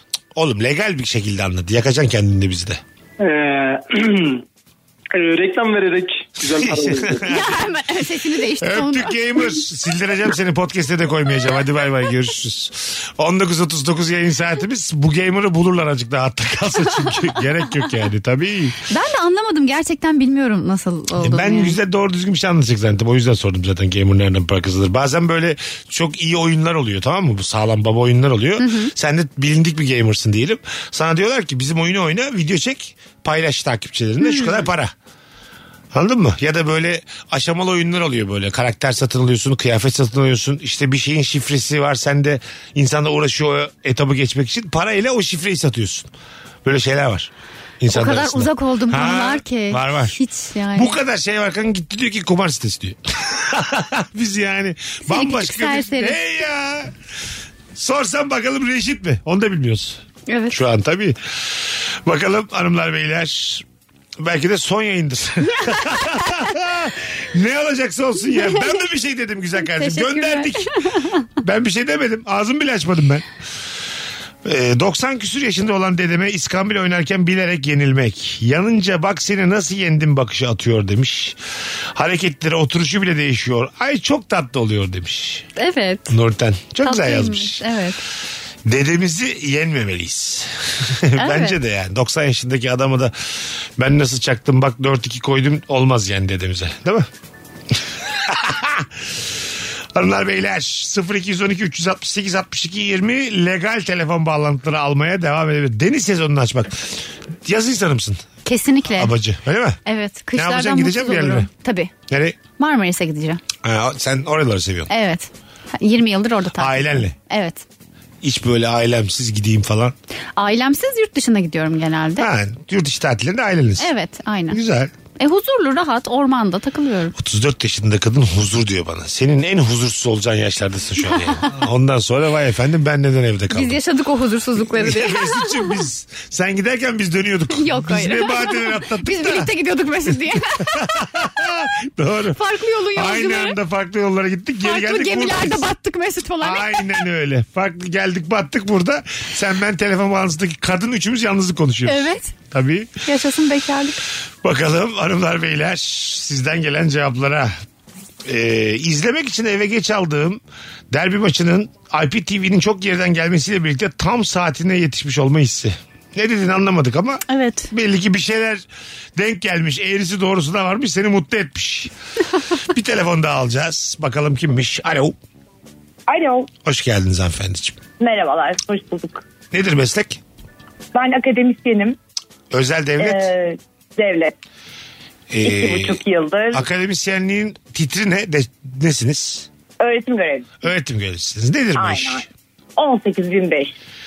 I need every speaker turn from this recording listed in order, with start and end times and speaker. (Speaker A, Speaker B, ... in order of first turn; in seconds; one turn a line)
Speaker A: 0.3-2.8
Speaker B: 3.2-4.4
Speaker B: 5.1-7.3
Speaker A: 6.6-7.5
Speaker C: 7.3-9.2
Speaker A: 8.6-18.8
Speaker C: 18.9-21.8
Speaker A: 21.2-34.9
Speaker C: 28.6-28.9
Speaker C: 34.2-34.6
Speaker A: 35.9-46.1
Speaker A: 46.6-50.2
Speaker C: 47.9-51.0
Speaker A: 50.7-56.9
Speaker C: 55.1-56.2
Speaker A: 57.8-63.6
Speaker C: 60.3-60.6
Speaker A: 64.2-70.7
Speaker C: 69.7-71.2
Speaker A: 71.4-73.3
Speaker A: 74.5-81.4
Speaker A: 82.0-85.5
Speaker C: 85.6-86.1
Speaker A: 86.1-87.6
Speaker C: 86.8-88.0
Speaker A: 88.7-93.1
Speaker C: 91.2-91.6
Speaker A: 93.8-97.1
Speaker A: 98.1-99.3
Speaker A: 100.0-108.3
Speaker C: 108.5-109.1
Speaker A: 108.9-109.8
Speaker C: 109.9-111.9
Speaker A: 110.4-111.5
Speaker A: 112.1-112.4
Speaker C: 112.5-113.4
Speaker A: 113.6-114.9
Speaker C: 114.9-117.6
Speaker A: 116.6-117.2
Speaker A: 118.2-119.9
Speaker C: 120.4-122.3
Speaker A: 122.2-123.9
Speaker C: 123.8-124.6
Speaker A: 124.5-124.9
Speaker C: 125.2-127.2
Speaker A: 127.2-133.8
Speaker C: 131.1-131.5
Speaker C: 133.5-135.8
Speaker A: 134.6-139.5
Speaker C: 137.6-140.9
Speaker A: 140.8-142.4
Speaker C: 142.4-143.6
Speaker A: 142.9-145.7
Speaker C: 144.6-147.0
Speaker A: 146.4-153.0
Speaker C: 151.9-152.3
Speaker C: 153.1-154.0
Speaker A: 154.4-157.5
Speaker A: 158.2-168.7
Speaker C: 167.3-167.7
Speaker A: 169.2-171.9
Speaker A: 172.7-175.2
Speaker D: 176.1-176.5
Speaker A: 176.6-177.8
Speaker D: 178.0-179.2
Speaker A: 179.5-180.2
Speaker D: 180.9-182.0
Speaker A: 182.5-183.3
Speaker D: 183.0-184.3
Speaker A: 185.3-186.0
Speaker D: 185.4-186.6
Speaker A: 186.5-189.5
Speaker D: 189.8-190.6
Speaker A: 190.6-192.3
Speaker D: 191.8-192.2
Speaker D: 192.8-193.8